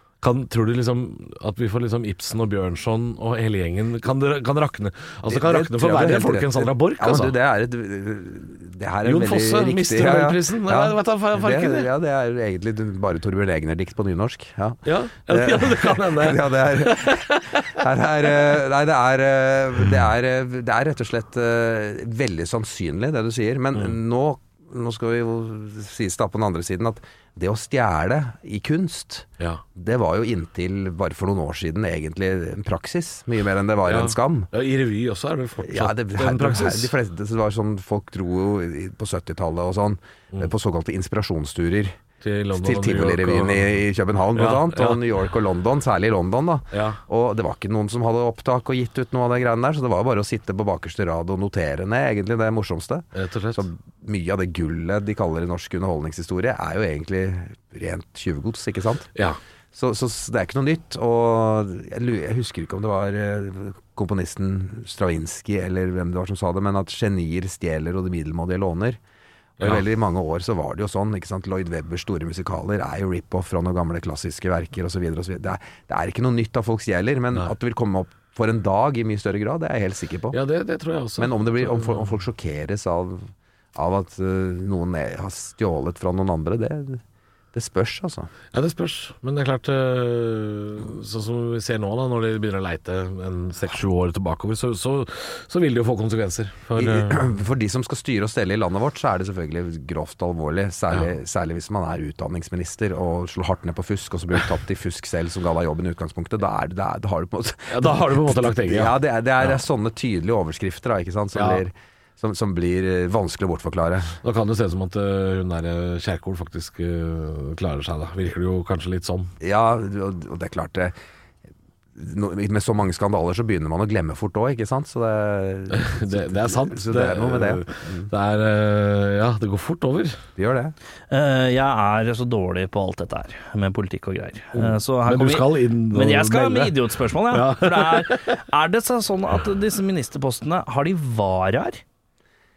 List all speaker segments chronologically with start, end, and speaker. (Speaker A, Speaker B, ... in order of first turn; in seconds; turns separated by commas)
Speaker A: 0.2-7.3, Speaker B: 5.3-34.5, Speaker A: 9.1-11.9, Speaker A: 14.8-17.6, Speaker A: 33.9-36.9, Speaker B: 35.6-42.0, Speaker A: 42.2-43.6, Speaker B: 42.5-59.1, Speaker A: 44.4-45.0, Speaker A: 46.7-47.0, Speaker A: 53.1-53.6, Speaker B: 59.7-69.0, Speaker B: 69.6-80.4, Speaker A: 80.3-82.2, Speaker B: 81.2-87.0, Speaker B: 87.5-88.3, Speaker A: 88.5-97.3, Speaker B: 96.8-114.2, Speaker A: 107.7-108.9, Speaker A: 111.3-111.6, Speaker A: 114.2-119.3, Speaker B: 119.4-121.0, Speaker B: 122.0-128.1, Speaker A: 125.7-130.2, Speaker B: 130.4-130.8, Speaker C: 131.1-141.8, Speaker A: 134.5-138.2